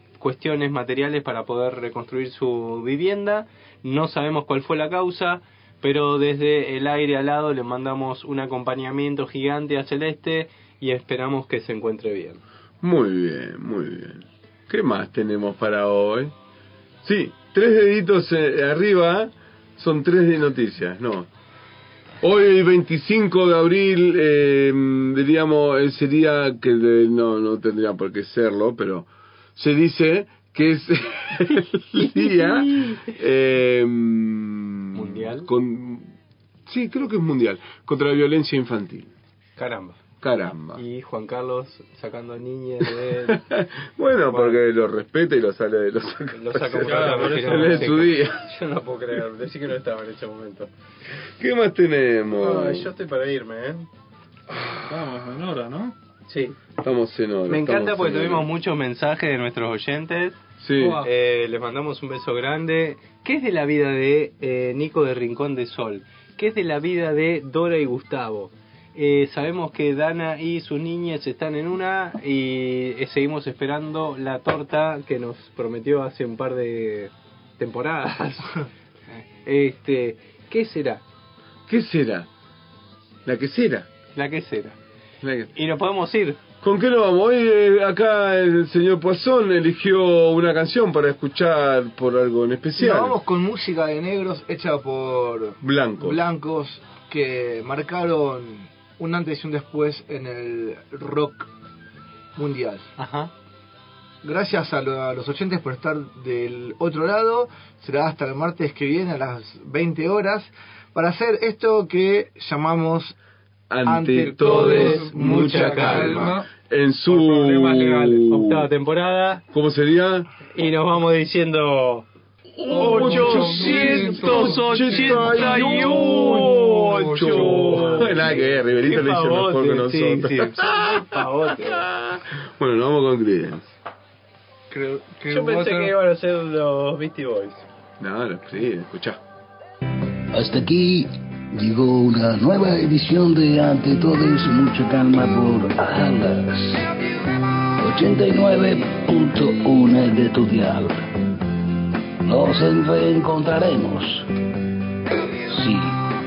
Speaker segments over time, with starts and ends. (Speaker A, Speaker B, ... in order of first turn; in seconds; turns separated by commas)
Speaker A: 0.2-12.4, Speaker B: 12.8-16.3, Speaker B: 17.0-21.3, Speaker B: 22.2-36.1, Speaker A: 32.0-33.0, Speaker A: 34.9-35.5, Speaker B: 36.7-39.1, Speaker A: 39.6-40.0, Speaker B: 40.2-40.8, Speaker A: 40.8-43.4, Speaker B: 42.8-48.5, Speaker A: 44.3-44.6, Speaker A: 46.3-50.7, Speaker C: 46.8-48.0, Speaker B: 51.4-52.9, Speaker A: 52.4-53.9, Speaker C: 54.7-56.0, Speaker A: 56.3-56.6, Speaker B: 56.8-58.5, Speaker A: 57.5-60.4, Speaker B: 60.6-61.0, Speaker C: 60.8-61.1, Speaker A: 61.0-81.0, Speaker B: 81.7-82.3, Speaker B: 83.2-83.9, Speaker A: 84.2-84.8, Speaker B: 85.2-85.5, Speaker A: 85.5-86.4, Speaker B: 86.6-93.2, Speaker D: 92.8-101.5, Speaker B: 95.6-96.3, Speaker D: 102.4-102.9, Speaker A: 103.0-103.3, Speaker D: 104.2-113.2, Speaker B: 113.7-118.7, Speaker D: 113.8-115.0, Speaker A: 114.4-116.3, Speaker C: 114.5-116.5, Speaker C: 117.1-118.3, Speaker A: 118.3-119.4, Speaker B: 119.5-120.3, Speaker A: 120.5-122.1, Speaker B: 122.6-133.8, Speaker C: 122.7-128.2, Speaker A: 122.7-131.9, Speaker C: 134.7-135.9, Speaker A: 135.3-137.7, Speaker B: 138.0-139.2, Speaker E: 140.3-146.9, Speaker E: 147.8-151.1, Speaker E: 152.2-154.3, Speaker E: 155.5-156.0